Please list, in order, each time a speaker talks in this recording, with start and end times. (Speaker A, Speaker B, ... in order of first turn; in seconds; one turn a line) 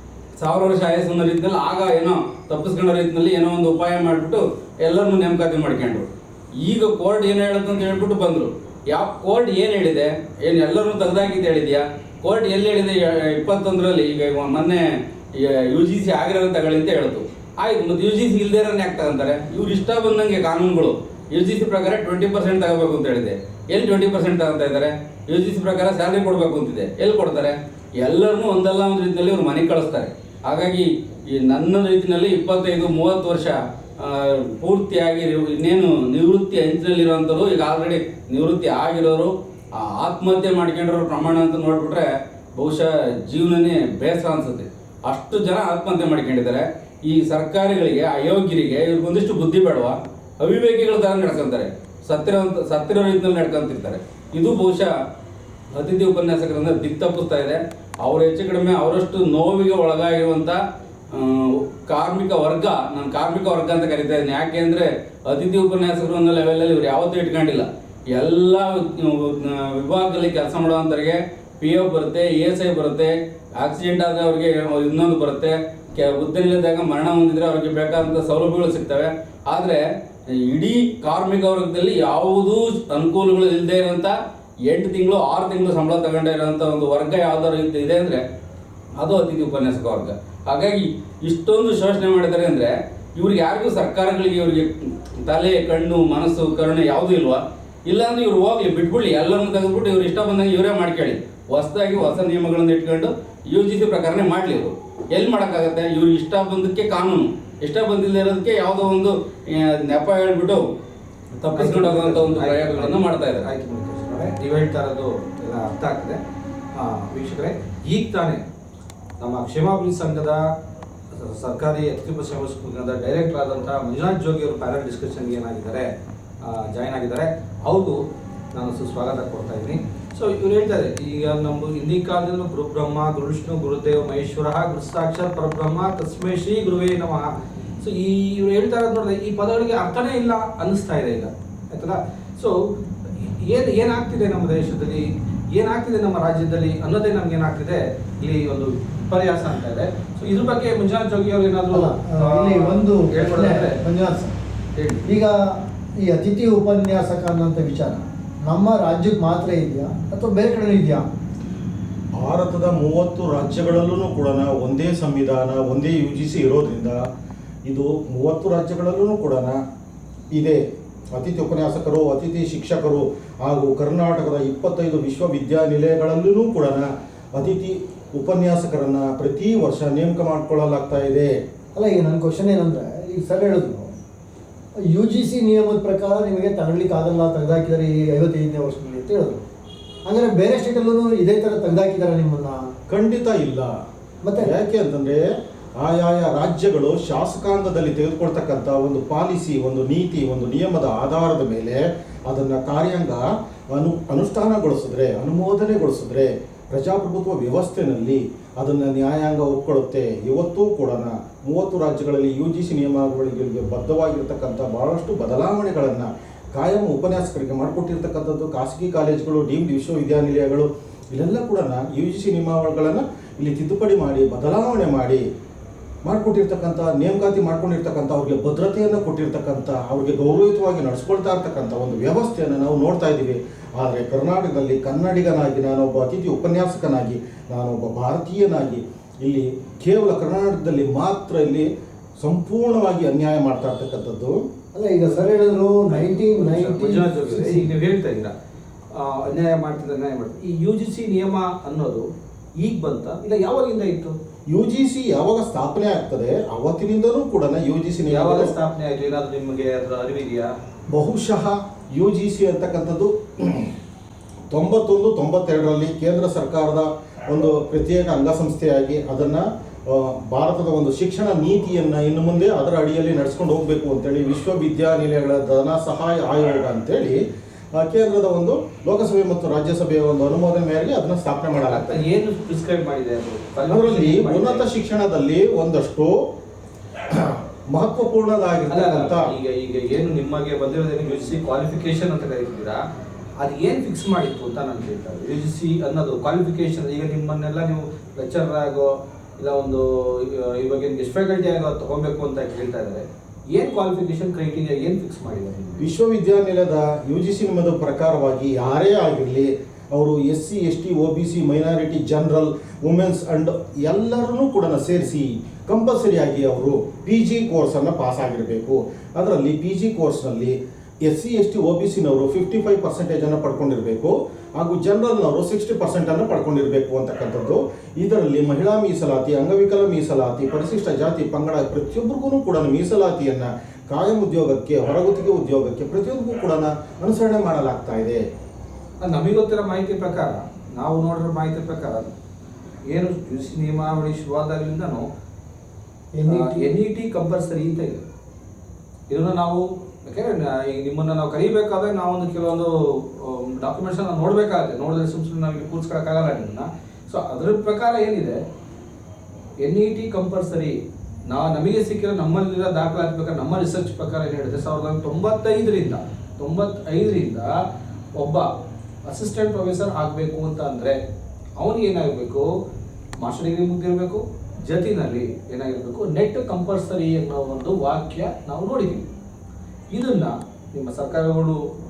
Speaker A: 0.4-6.0
Speaker A: 6.6-14.8
Speaker A: 15.3-54.9
Speaker A: 55.7-60.6
Speaker A: 61.1-79.8
Speaker A: 80.4-84.1
Speaker A: 84.7-88.2
Speaker A: 89.0-94.7
Speaker A: 95.2-110.6
Speaker A: 111.4-113.5
Speaker B: 111.5-116.2
Speaker B: 116.7-118.4
Speaker B: 119.2-120.4
Speaker B: 121.1-125.9
Speaker B: 126.4-128.0
Speaker B: 128.5-142.5
Speaker B: 143.1-153.8
Speaker C: 151.7-154.3
Speaker B: 154.8-155.1
Speaker C: 155.0-161.0
Speaker D: 162.2-167.0
Speaker D: 167.6-169.6
Speaker D: 170.3-170.6
Speaker D: 171.1-181.3
Speaker C: 181.7-183.9
Speaker C: 184.9-189.4
Speaker C: 190.0-192.7
Speaker D: 192.9-193.8
Speaker C: 194.2-194.5
Speaker D: 194.3-195.2
Speaker D: 195.8-225.2
Speaker D: 226.0-244.4
Speaker C: 244.7-247.7
Speaker B: 245.9-248.3
Speaker B: 248.9-254.2
Speaker D: 254.5-258.5
Speaker B: 258.1-260.5
Speaker D: 260.9-263.7
Speaker D: 264.5-277.2
Speaker D: 277.7-282.0
Speaker B: 281.6-284.6
Speaker D: 283.7-286.2
Speaker D: 287.1-289.3
Speaker B: 288.7-292.8
Speaker B: 293.4-306.0
Speaker D: 305.8-338.2
Speaker B: 339.0-342.1
Speaker B: 342.9-345.1
Speaker C: 346.1-346.7
Speaker B: 346.3-348.0
Speaker B: 349.1-358.4
Speaker B: 359.6-360.8
Speaker B: 361.3-367.5
Speaker B: 368.1-368.5
Speaker B: 369.1-371.0
Speaker B: 371.6-372.5
Speaker B: 373.2-379.1
Speaker B: 379.9-381.6